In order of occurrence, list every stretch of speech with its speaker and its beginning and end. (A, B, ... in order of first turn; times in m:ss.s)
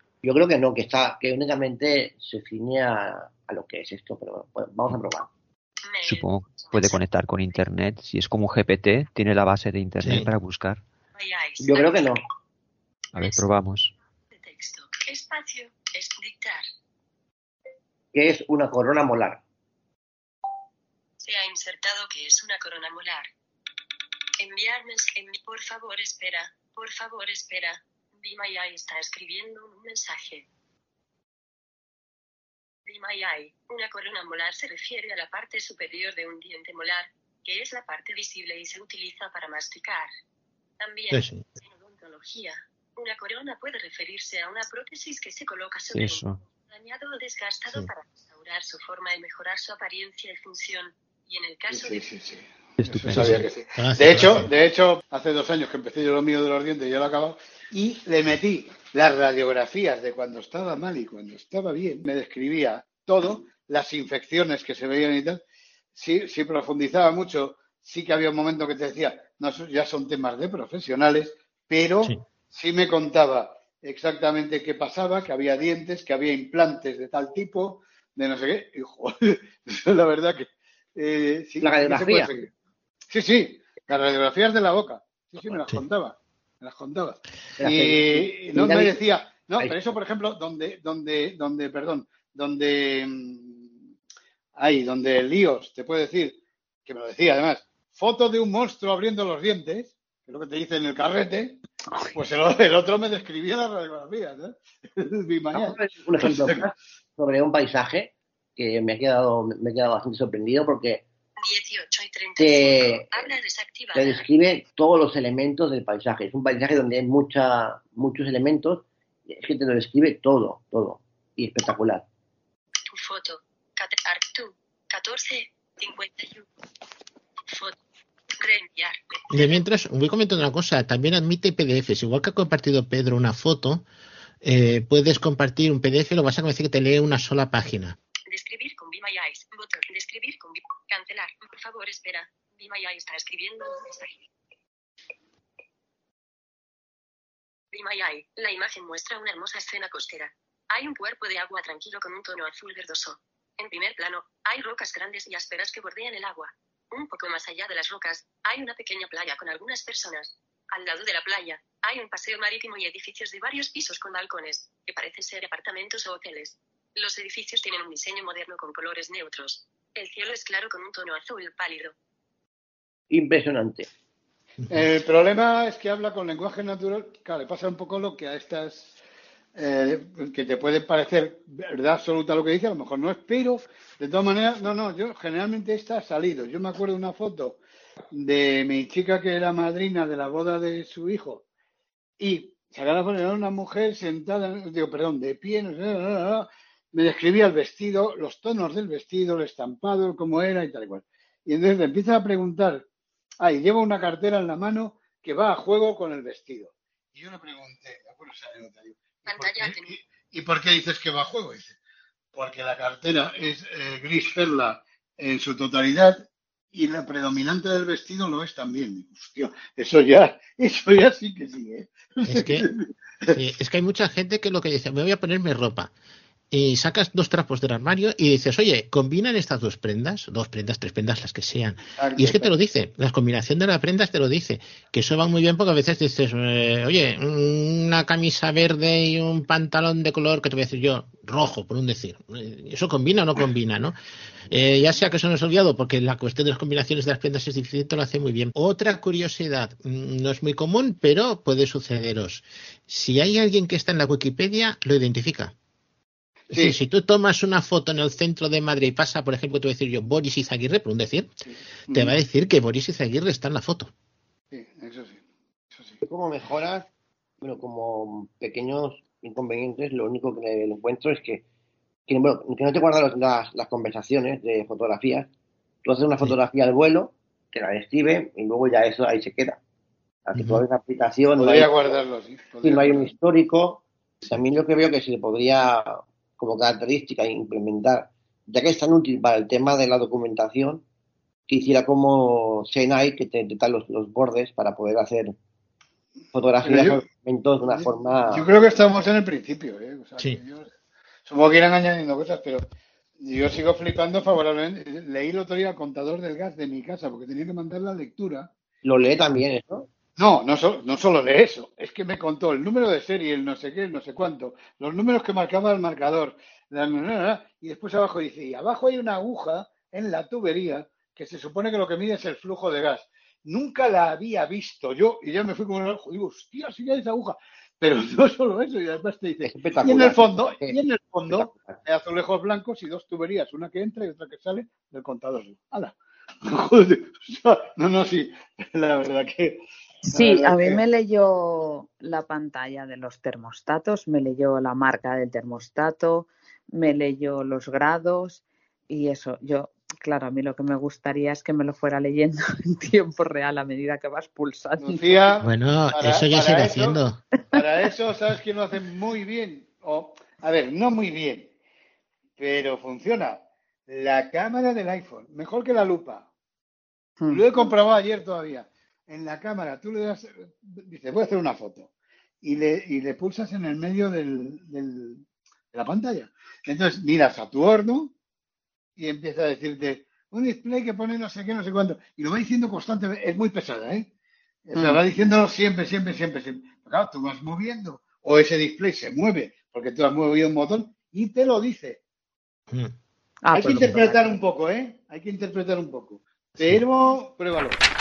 0:00.2-0:05.3 A
0:05.9-0:07.0 B
0:06.0-0:10.8 C
0:10.0-0:10.3 D
0:11.2-0:12.2 B
0:11.6-0:12.2 A
0:13.1-0:13.4 B
0:13.1-0:13.9 C
0:14.3-0:16.6 B
0:18.1-0:19.4 A
0:21.2-0:23.3 B
0:24.4-0:30.5 B
0:32.9-0:40.1 B
0:40.8-0:52.0 B
0:41.1-0:41.4 D
0:45.9-0:46.4 C
0:51.7-1:05.4 E
0:52.8-0:53.4 C
0:53.1-0:54.5 D
1:05.9-1:22.5 E
1:21.6-1:22.3 A
1:23.1-1:33.7 E
1:27.6-1:29.0 A
1:29.6-1:30.0 A
1:34.6-1:46.6 E
1:45.5-1:51.0 A
1:51.4-1:54.2 B
1:52.4-1:53.3 A
1:53.9-2:02.0 A
2:02.9-2:06.4 B
2:07.5-2:07.7 B
2:08.4-2:09.6 B
2:09.3-2:13.8 D
2:14.4-2:18.0 D
2:18.3-2:24.2 B
2:27.7-2:51.9 B
2:53.1-2:53.9 A
2:54.7-2:58.9 E
2:59.6-3:07.6 E
3:08.1-3:11.4 E
3:12.2-3:22.8 E
3:23.4-3:31.7 E
3:29.2-3:30.0 B
3:32.3-3:43.4 E
3:42.2-3:42.7 D
3:43.3-3:45.9 D
3:46.5-4:04.0 D
3:52.0-3:52.5 E
4:04.5-4:15.5 D
4:16.5-4:21.3 D
4:16.5-4:16.8 E
4:21.5-4:22.2 E
4:21.9-4:23.9 D
4:24.5-4:25.2 E
4:25.7-4:26.0 E
4:26.0-4:26.9 A
4:27.4-4:31.4 A
4:32.1-4:35.3 A
4:35.8-4:39.6 A
4:40.2-4:41.9 A
4:40.4-4:40.6 D
4:41.4-4:43.1 E
4:42.6-4:50.8 A
4:51.5-4:55.4 A
4:56.3-4:58.4 A
4:56.6-4:57.0 E
4:57.6-5:00.7 E
5:01.2-5:02.6 E
5:03.2-5:08.5 E
5:08.8-5:09.9 A
5:10.2-5:40.8 E
5:29.4-5:31.8 A
5:40.1-5:55.2 F
5:54.8-5:57.0 E
5:55.4-5:57.2 D
5:57.5-6:01.5 E
6:02.4-6:06.2 E
6:07.2-6:07.6 F
6:07.3-6:11.9 E
6:12.4-6:18.1 E
6:19.0-6:24.1 E
6:24.6-6:32.0 E
6:24.7-6:25.0 F
6:33.4-6:34.3 F
6:33.5-6:37.8 E